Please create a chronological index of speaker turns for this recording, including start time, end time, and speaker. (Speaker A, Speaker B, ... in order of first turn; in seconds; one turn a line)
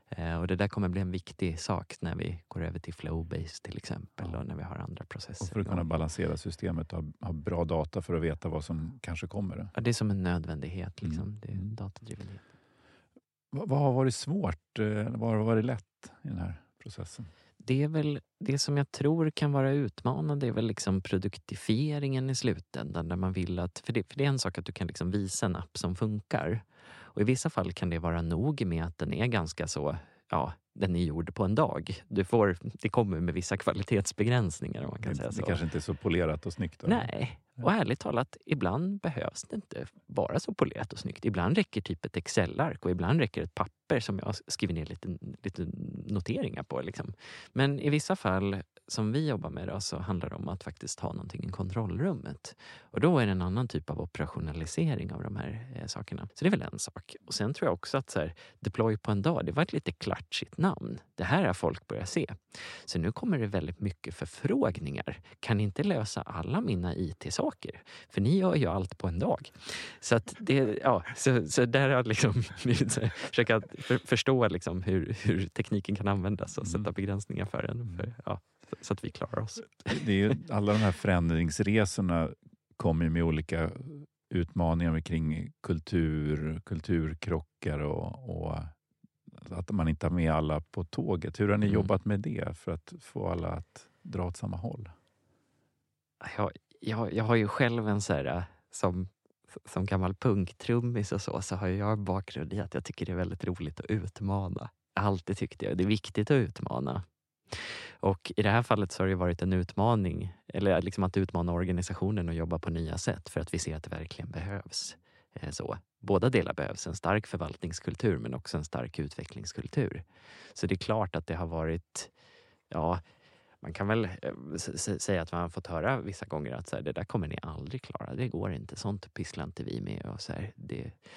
Speaker A: 0.1-5.8
Speaker B: 5.4-9.7
Speaker A: 9.7-12.4
Speaker B: 11.0-11.7
Speaker B: 13.5-17.3
Speaker A: 17.6-35.6
Speaker B: 35.0-37.1
Speaker A: 36.9-80.3
Speaker B: 79.9-88.7
Speaker B: 89.3-94.9
Speaker A: 91.6-91.9
Speaker A: 96.2-122.1
Speaker A: 122.7-123.0
Speaker A: 123.6-131.0